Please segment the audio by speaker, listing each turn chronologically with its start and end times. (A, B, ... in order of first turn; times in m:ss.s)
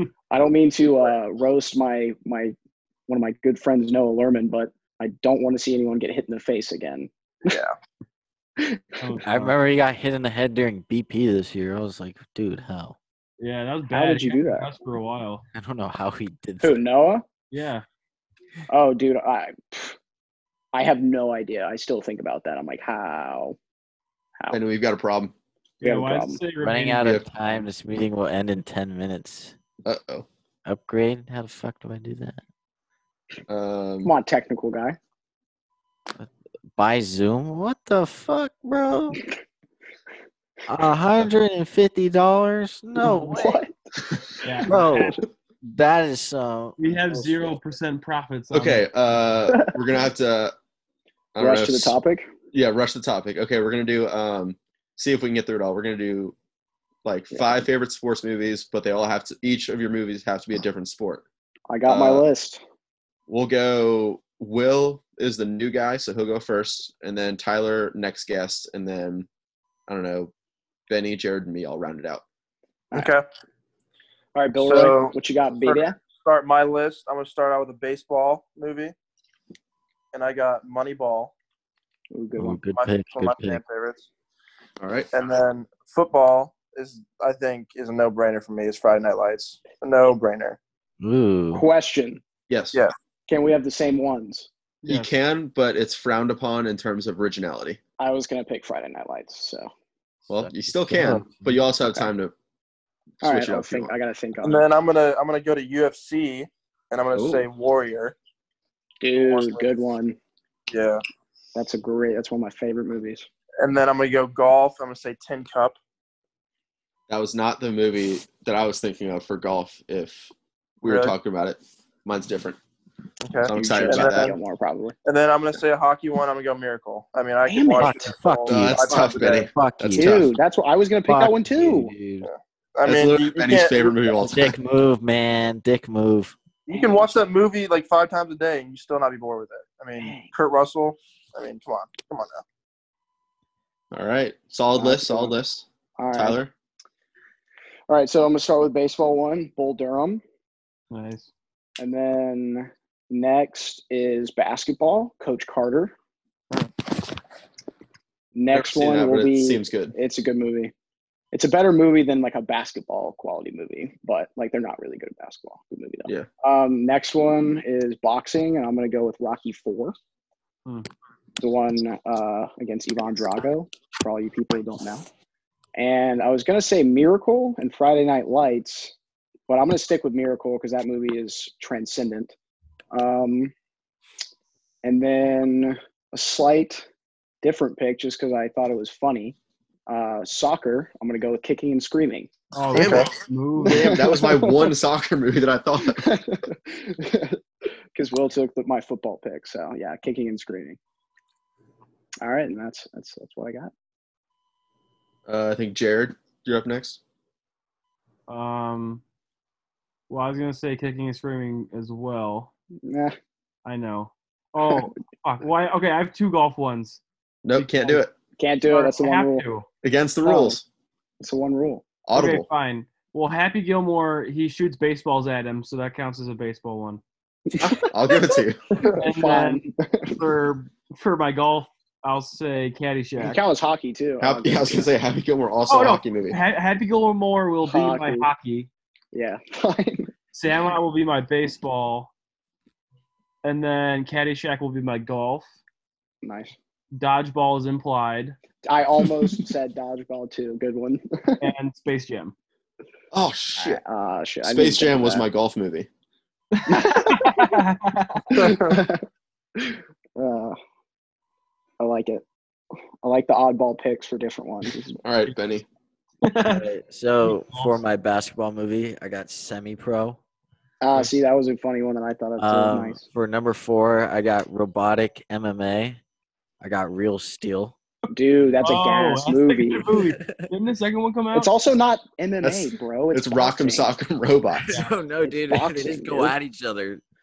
0:00.3-0:02.6 A
0:03.1-0:07.5 A
0:07.5-0:07.8 B
0:08.6-0:09.0 A
0:09.0-0:09.5 C
0:09.2-0:13.0 D
0:13.4-0:15.4 C
0:13.9-0:14.7 A
0:15.5-0:16.8 D
0:16.6-0:17.3 A
0:17.5-0:17.8 C
0:18.7-0:20.0 A
0:20.7-0:23.6 A
0:24.5-0:25.3 E
0:25.8-0:27.2 C
0:25.8-0:26.4 A
0:26.6-0:29.6 D
0:27.0-0:27.3 E
0:29.8-0:30.3 E
0:30.6-0:32.4 D
0:33.5-0:34.1 E
0:34.0-0:35.0 A
0:36.2-0:39.3 D
0:40.7-0:43.6 D
0:43.0-0:43.7 A
0:44.4-0:45.2 C
0:44.6-0:47.4 D
0:46.8-0:48.9 C
0:48.5-0:50.5 E
0:51.4-0:52.0 E
0:51.4-0:52.3 A
0:52.5-0:56.4 E
0:57.0-1:01.2 E
1:01.7-1:02.6 A
1:01.9-1:02.2 E
1:03.3-1:09.3 E
1:09.9-1:10.3 E
1:10.9-1:12.2 E
1:13.0-1:13.2 B
1:14.4-1:16.0 A
1:14.6-1:18.9 B
1:20.1-1:21.3 B
1:22.1-1:22.6 A
1:22.4-1:23.6 D
1:22.7-1:24.1 B
1:24.8-1:25.1 E
1:25.1-1:30.6 B
1:31.0-1:31.6 D
1:31.5-1:32.2 A
1:32.5-1:32.8 E
1:33.3-1:34.5 A
1:34.8-1:37.8 E
1:34.8-1:35.1 C
1:38.0-1:39.7 A
1:40.3-1:42.3 E
1:40.3-1:41.4 D
1:43.2-1:43.9 E
1:43.2-1:44.6 A
1:44.4-1:48.2 B
1:47.2-1:47.5 E
1:49.0-1:50.2 A
1:49.1-1:49.8 B
1:50.7-1:51.0 B
1:51.6-1:53.3 A
1:53.6-1:55.8 B
1:57.1-2:00.3 E
2:00.8-2:02.6 E
2:00.9-2:01.2 B
2:03.2-2:04.4 B
2:03.5-2:04.3 E
2:03.5-2:05.0 A
2:05.0-2:09.5 B
2:07.5-2:08.1 A
2:07.8-2:10.4 D
2:08.5-2:10.3 E
2:10.0-2:11.9 A
2:11.1-2:12.3 D
2:12.2-2:14.1 B
2:12.8-2:14.6 E
2:14.2-2:16.4 D
2:16.7-2:22.4 B
2:16.7-2:17.0 A
2:20.0-2:20.3 A
2:23.9-2:26.5 E
2:24.8-2:25.4 A
2:26.0-2:26.4 A
2:27.9-2:30.2 A
2:30.9-2:31.3 C
2:31.8-2:35.9 A
2:38.3-2:40.7 A
2:38.5-2:40.0 E
2:41.3-2:50.0 A
2:51.4-2:55.0 A
2:55.8-2:58.9 A
2:59.5-3:02.4 A
3:02.9-3:03.5 A
3:04.8-3:06.9 A
3:07.4-3:09.4 A
3:09.9-3:12.3 A
3:12.6-3:14.0 C
3:12.7-3:16.2 E
3:12.7-3:13.1 B
3:13.7-3:14.7 A
3:15.9-3:20.8 A
3:22.2-3:23.7 A
3:25.3-3:27.0 E
3:28.3-3:29.0 C
3:30.1-3:32.5 C
3:32.8-3:33.1 A
3:33.6-3:37.0 C
3:37.4-3:38.1 E
3:37.6-3:38.0 C
3:38.4-3:39.5 A
3:38.7-3:39.7 C
3:39.8-3:40.6 E
3:40.2-3:40.6 A
3:41.2-3:41.8 A
3:42.1-3:42.5 E
3:42.1-3:47.0 C
3:47.5-3:48.1 A
3:47.8-3:48.6 E
3:48.7-3:50.1 A
3:48.9-3:53.4 C
3:53.2-3:54.9 A
3:54.2-3:56.4 E
3:55.7-3:58.7 C
3:57.6-3:58.3 A
3:59.1-4:00.1 A
4:00.3-4:02.1 C
4:03.4-4:05.5 C
4:06.2-4:06.5 A
4:06.9-4:08.4 C
4:08.6-4:11.4 A
4:11.4-4:12.3 C
4:13.1-4:13.8 E
4:13.6-4:15.3 A
4:14.4-4:15.9 E
4:16.6-4:18.4 C
4:16.7-4:17.6 A
4:18.3-4:19.0 A
4:19.6-4:20.6 A
4:21.8-4:22.2 A
4:23.0-4:25.0 A
4:25.0-4:25.7 E
4:26.2-4:26.7 C
4:26.4-4:30.2 D
4:27.3-4:27.8 C
4:30.8-4:33.0 A
4:32.4-4:36.0 D
4:36.6-4:37.8 D
4:38.1-4:39.9 A
4:38.6-4:41.5 C
4:39.9-4:40.5 D
4:41.3-4:43.9 A
4:42.4-4:44.7 E
4:44.6-4:47.0 D
4:45.2-4:46.4 A